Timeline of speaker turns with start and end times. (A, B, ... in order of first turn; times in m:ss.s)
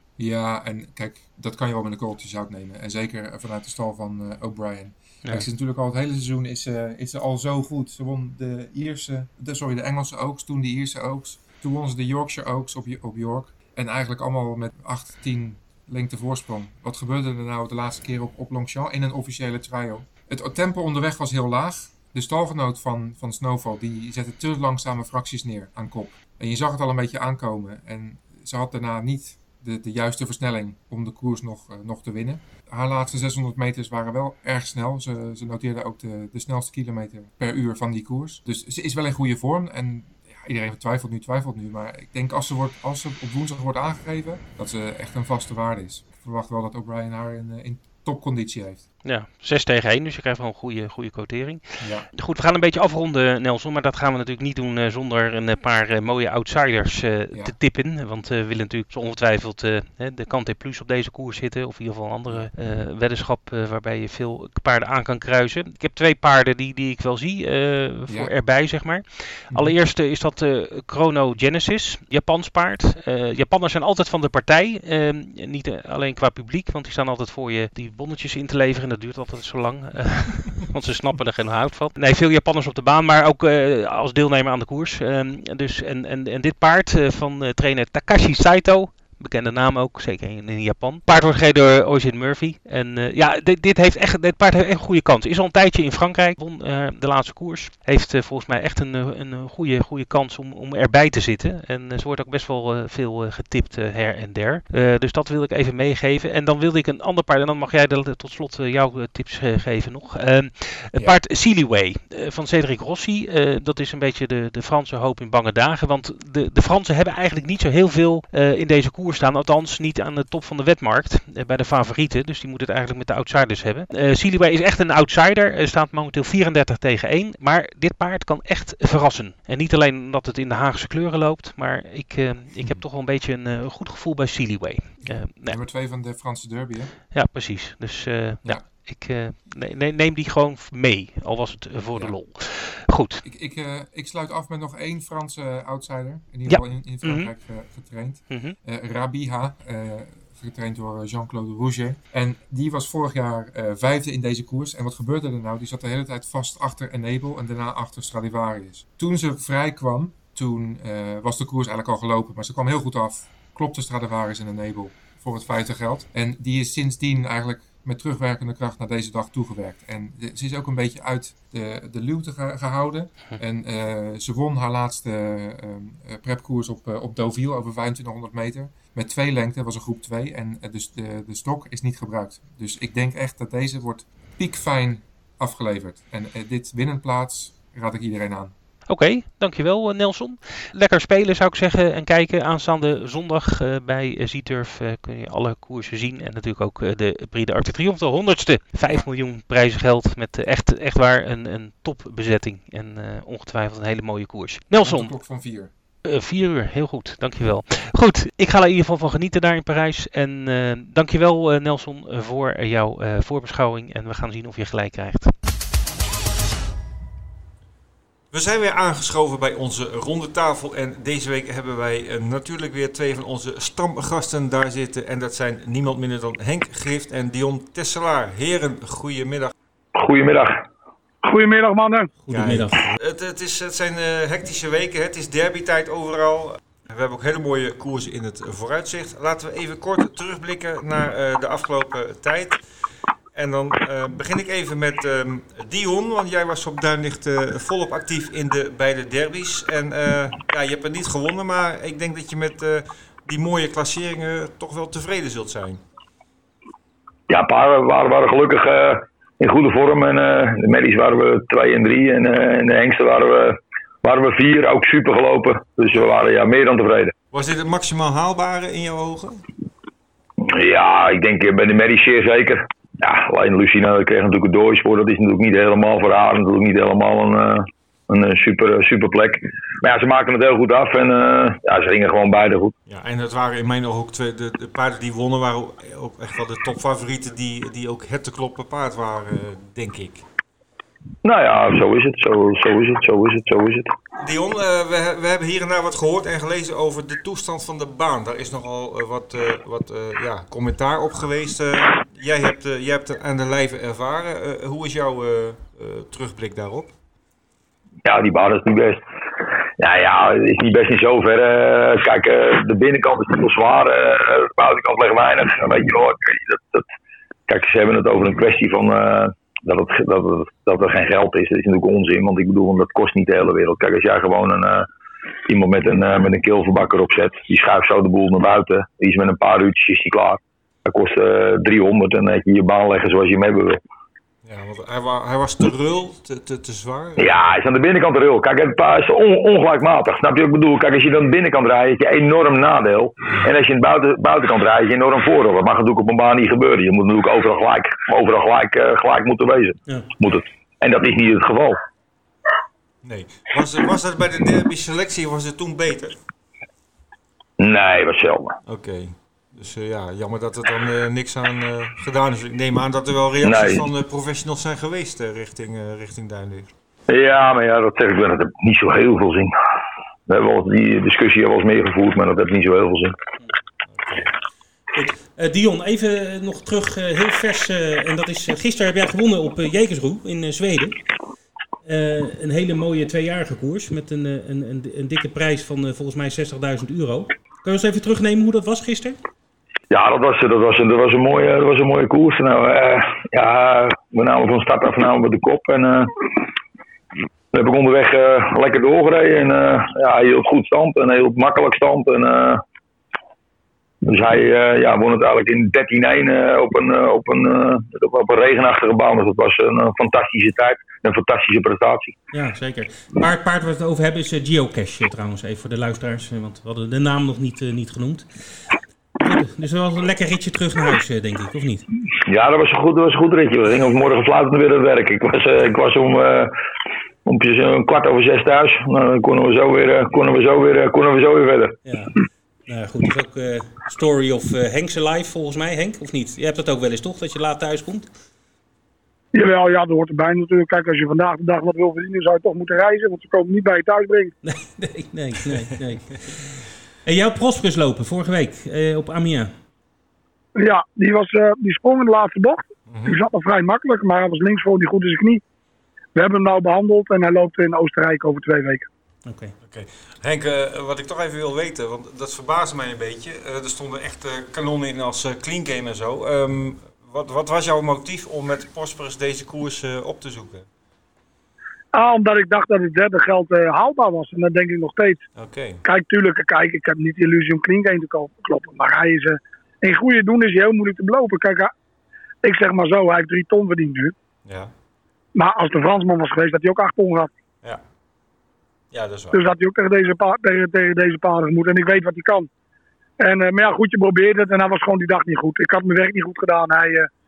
0:00.2-0:48.8 A
0:49.0-0:51.6 B
0:51.8-0:52.1 A
0:52.1-2:15.6 B
1:08.1-1:08.3 A
2:15.0-2:16.9 A
2:17.1-2:23.2 B
2:23.2-3:08.5 A
2:26.5-2:27.3 B
2:28.3-2:28.6 B
3:08.9-3:25.1 B
3:24.8-3:25.7 A
3:26.0-3:35.3 B
3:38.3-3:49.5 C
3:49.9-3:50.6 D
3:51.2-3:52.1 E
3:52.2-3:52.8 B
3:52.3-4:02.6 C
4:03.3-4:15.8 C
4:17.3-4:27.1 D
4:27.3-4:29.4 C
4:30.4-4:42.7 D
4:42.9-4:50.2 C
4:51.2-4:53.9 D
4:54.2-5:06.9 C
5:08.0-5:09.0 D
5:09.8-5:16.8 D
5:17.5-5:24.9 D
5:25.4-5:33.8 D
5:34.4-5:37.4 C
5:37.2-5:51.8 D
5:53.0-5:56.2 C
5:57.6-5:58.6 D
5:58.7-6:06.7 C
6:03.4-6:03.8 D
6:07.1-6:09.5 D
6:10.3-6:13.2 D
6:13.9-6:14.3 C
6:14.9-6:21.0 B
6:21.8-6:29.2 B
6:29.9-6:36.1 D
6:37.5-6:42.6 D
6:44.0-6:52.2 D
6:52.3-7:01.9 B
7:02.2-7:06.5 D
7:07.2-7:11.8 D
7:11.8-7:12.1 B
7:12.7-7:18.1 B
7:19.3-7:24.3 E
7:24.4-7:29.5 B
7:30.6-7:35.4 E
7:32.9-7:33.2 C
7:36.2-7:38.9 E
7:39.2-7:39.5 B
7:39.6-7:50.6 C
7:51.9-7:55.2 E
7:55.4-7:55.8 C
7:55.8-8:01.7 E
8:02.4-8:04.1 E
8:04.4-8:04.7 C
8:05.3-8:07.3 E
8:08.9-8:09.4 C
8:09.3-8:12.4 E
8:13.2-8:17.1 E